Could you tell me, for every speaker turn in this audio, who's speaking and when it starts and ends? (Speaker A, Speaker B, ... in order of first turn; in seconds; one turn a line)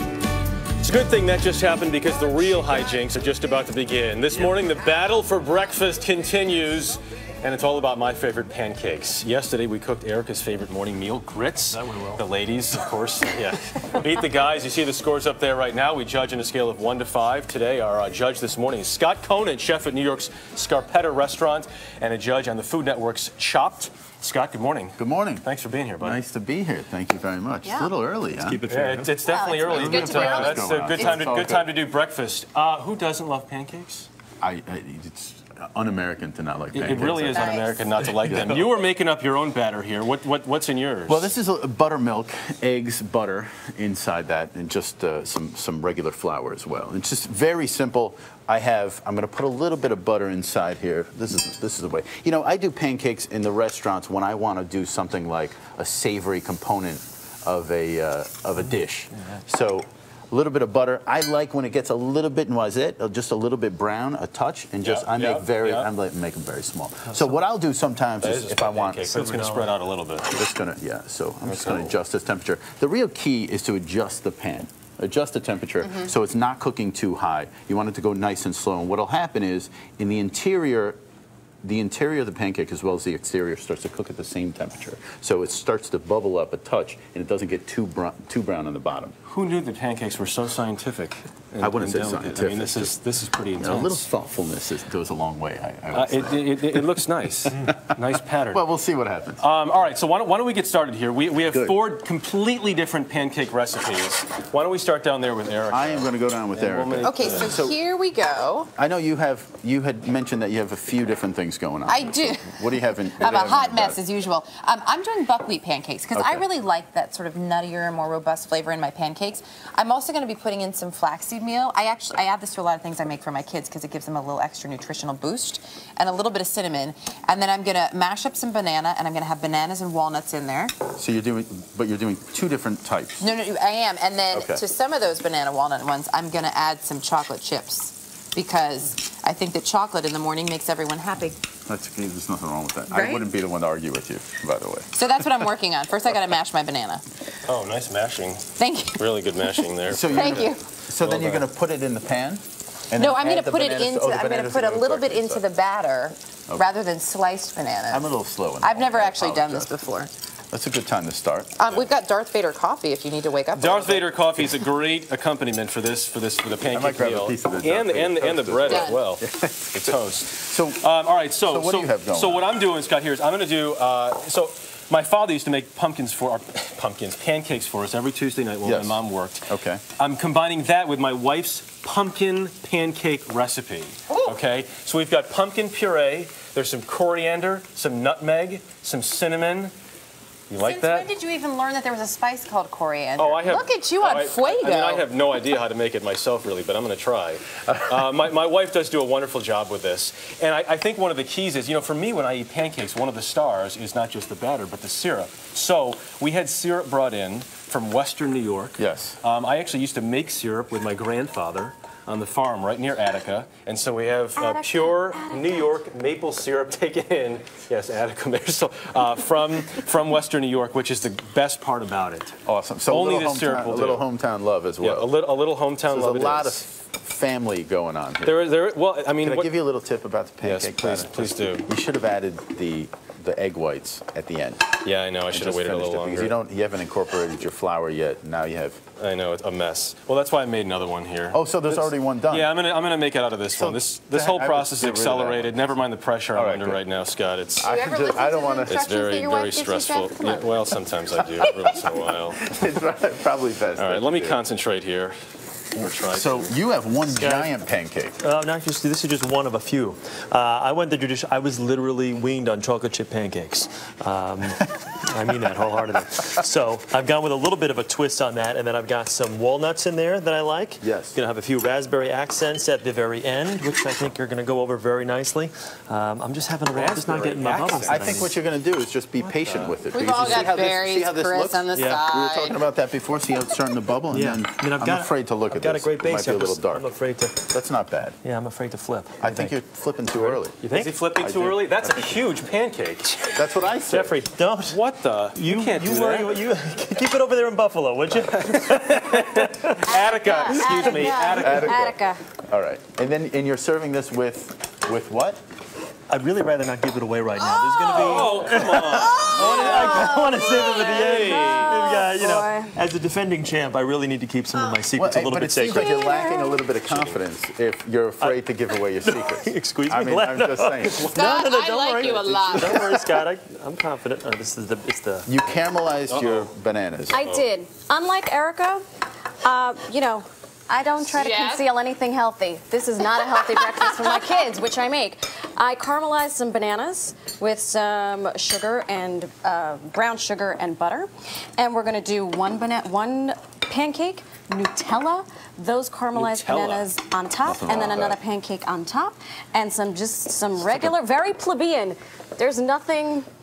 Speaker A: 0.8-26.2
Speaker B: 11.7-12.2
Speaker C: 25.0-25.4
Speaker C: 26.0-28.6
Speaker D: 27.6-27.9
Speaker B: 28.4-29.2
Speaker A: 28.7-34.1
Speaker D: 29.2-31.2
Speaker C: 29.6-31.7
Speaker C: 34.4-38.7
Speaker A: 36.7-41.3
Speaker D: 37.3-37.9
Speaker C: 41.1-69.1
Speaker A: 64.8-65.9
Speaker A: 68.2-70.3
Speaker B: 69.1-69.8
Speaker C: 70.2-81.0
Speaker A: 71.4-71.9
Speaker C: 81.6-89.1
Speaker A: 89.2-94.1
Speaker C: 91.6-92.9
Speaker C: 93.6-96.8
Speaker A: 95.9-98.6
Speaker C: 98.5-99.4
Speaker A: 99.4-107.6
Speaker C: 101.5-101.8
Speaker C: 105.7-107.8
Speaker D: 107.0-108.7
Speaker C: 108.8-114.0
Speaker D: 111.8-130.7
Speaker C: 116.1-116.5
Speaker C: 130.9-133.2
Speaker D: 133.2-141.3
Speaker C: 134.3-134.6
Speaker C: 141.7-144.9
Speaker D: 142.9-143.3
Speaker D: 144.9-147.0
Speaker A: 147.4-151.5
Speaker D: 148.6-149.6
Speaker C: 149.9-155.4
Speaker D: 150.1-150.6
Speaker D: 152.9-158.1
Speaker C: 157.9-159.7
Speaker D: 158.6-160.1
Speaker C: 160.5-161.7
Speaker D: 161.6-164.0
Speaker A: 163.5-179.4
Speaker C: 166.7-170.9
Speaker D: 168.6-169.0
Speaker C: 171.4-172.4
Speaker C: 178.6-179.8
Speaker A: 180.0-189.7
Speaker D: 184.1-184.4
Speaker A: 190.5-191.1
Speaker D: 190.6-195.1
Speaker A: 193.2-222.3
Speaker C: 208.8-209.2
Speaker E: 214.4-215.7
Speaker C: 222.4-225.1
Speaker A: 222.9-224.1
Speaker A: 224.8-226.6
Speaker C: 225.9-228.4
Speaker A: 228.2-229.6
Speaker C: 229.2-234.8
Speaker A: 230.4-231.7
Speaker A: 234.8-236.3
Speaker C: 235.3-238.8
Speaker A: 239.0-247.7
Speaker C: 241.3-242.5
Speaker C: 243.5-245.7
Speaker C: 246.3-246.8
Speaker C: 247.6-248.9
Speaker D: 247.6-250.6
Speaker A: 248.6-252.4
Speaker C: 252.2-254.4
Speaker A: 253.8-255.2
Speaker A: 255.7-256.5
Speaker C: 255.8-258.2
Speaker B: 257.1-257.5
Speaker B: 258.2-278.3
Speaker C: 270.8-271.2
Speaker A: 276.7-278.3
Speaker C: 277.7-286.9
Speaker B: 279.2-280.4
Speaker D: 279.9-282.6
Speaker B: 281.7-282.0
Speaker B: 284.1-287.5
Speaker C: 287.5-288.1
Speaker B: 288.2-289.6
Speaker C: 289.2-290.6
Speaker B: 290.1-291.0
Speaker A: 290.6-293.3
Speaker C: 291.2-292.2
Speaker C: 293.3-294.1
Speaker B: 293.9-294.8
Speaker A: 294.7-296.4
Speaker B: 295.3-299.7
Speaker A: 298.4-301.9
Speaker E: 299.8-302.2
Speaker B: 300.6-301.0
Speaker C: 301.2-305.4
Speaker B: 306.1-316.0
Speaker E: 307.8-308.4
Speaker A: 307.9-311.8
Speaker E: 309.2-312.8
Speaker C: 314.9-321.1
Speaker E: 315.7-316.6
Speaker A: 316.9-317.2
Speaker B: 319.0-325.3
Speaker D: 321.0-323.0
Speaker C: 325.2-327.2
Speaker A: 326.1-326.5
Speaker E: 327.1-328.8
Speaker A: 327.2-327.4
Speaker E: 329.4-353.3
Speaker D: 331.1-331.6
Speaker A: 346.1-346.9
Speaker C: 347.4-348.2